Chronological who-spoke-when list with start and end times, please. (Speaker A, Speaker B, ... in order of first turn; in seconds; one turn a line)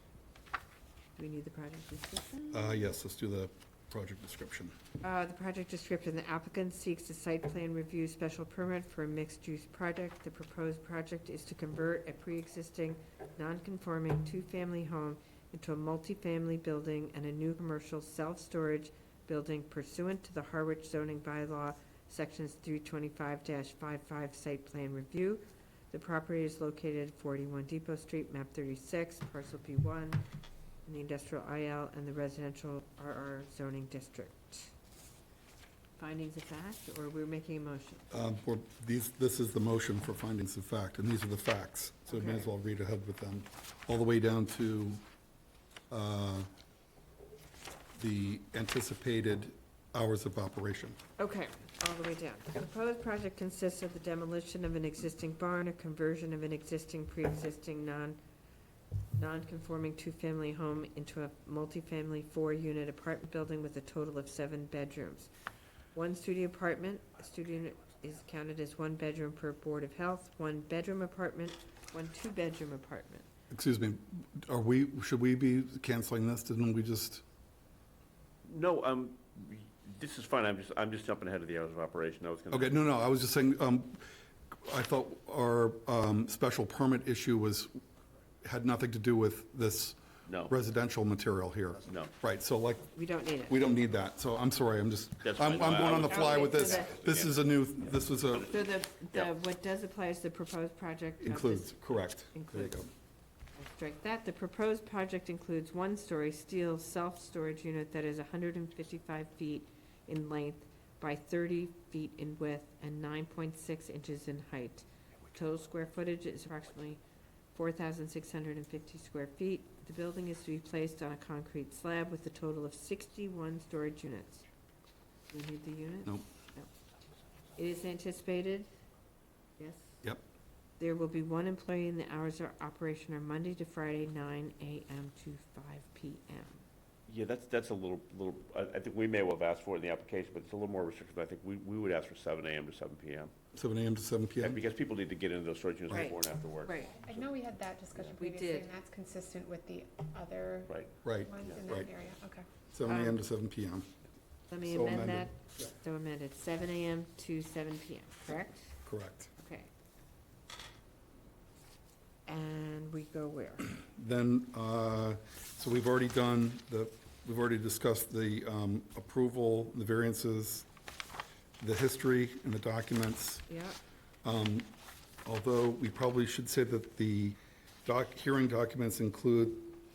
Speaker A: 1.1-2.6
Speaker B: 2.5-4.7
Speaker A: 5.0-30.2
Speaker A: 30.9-34.7
Speaker A: 36.0-38.1
Speaker B: 38.1-45.0
Speaker A: 42.1-42.5
Speaker B: 45.9-46.5
Speaker B: 48.0-51.0
Speaker A: 51.2-58.2
Speaker A: 59.1-65.3
Speaker A: 65.9-73.3
Speaker B: 73.5-77.2
Speaker C: 78.4-82.8
Speaker B: 82.5-87.8
Speaker B: 88.4-92.9
Speaker C: 90.2-90.5
Speaker C: 91.8-92.1
Speaker A: 92.9-93.7
Speaker B: 93.5-98.5
Speaker C: 95.2-97.5
Speaker A: 95.9-96.9
Speaker A: 98.3-102.9
Speaker B: 101.2-102.9
Speaker A: 103.5-117.0
Speaker A: 117.5-124.5
Speaker A: 125.3-126.7
Speaker A: 127.6-128.7
Speaker A: 129.6-129.9
Speaker A: 130.8-136.6
Speaker C: 137.1-143.3
Speaker B: 143.5-144.6
Speaker C: 144.4-147.2
Speaker A: 145.9-147.0
Speaker D: 147.0-152.5
Speaker A: 148.2-148.7
Speaker B: 151.0-151.9
Speaker B: 152.7-153.8
Speaker A: 152.9-153.2
Speaker A: 154.5-158.8
Speaker B: 154.6-155.3
Speaker B: 158.8-159.3
Speaker A: 159.4-159.7
Speaker A: 162.3-163.7
Speaker B: 163.8-170.7
Speaker B: 171.6-173.4
Speaker A: 173.5-173.8
Speaker B: 174.2-174.7
Speaker B: 175.2-179.8